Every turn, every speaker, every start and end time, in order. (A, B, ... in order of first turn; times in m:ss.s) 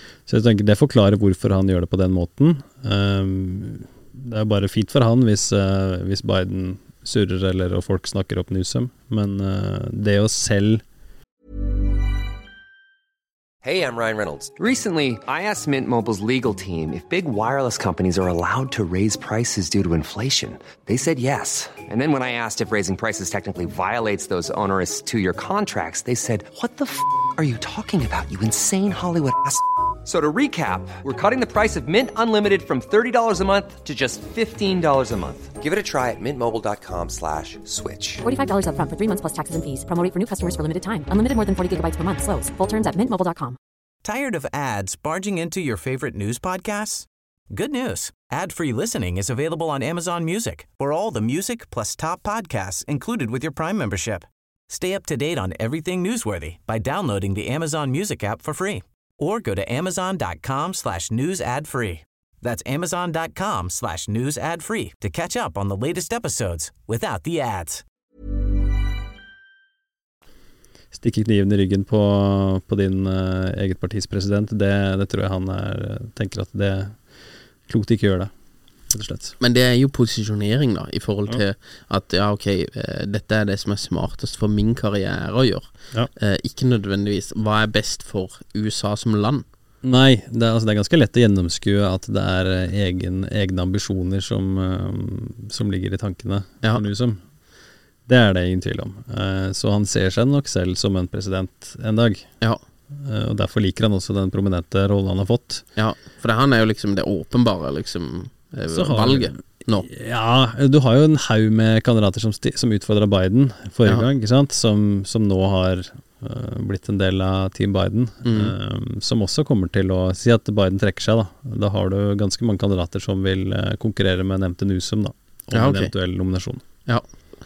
0:00.3-0:10.8 A
0:13.6-0:38.2 B
0:38.2-0:43.6 C
0:44.0-1:07.8 D
1:10.9-1:17.0 A
1:17.7-1:18.3 A
1:18.9-1:19.4 A
1:19.4-1:29.4 E
1:29.8-1:37.2 A
1:38.1-1:42.3 A
1:42.9-1:45.7 A
1:45.8-1:49.9 E
1:48.7-2:06.6 A
1:58.2-1:58.5 E
2:05.5-2:05.9 E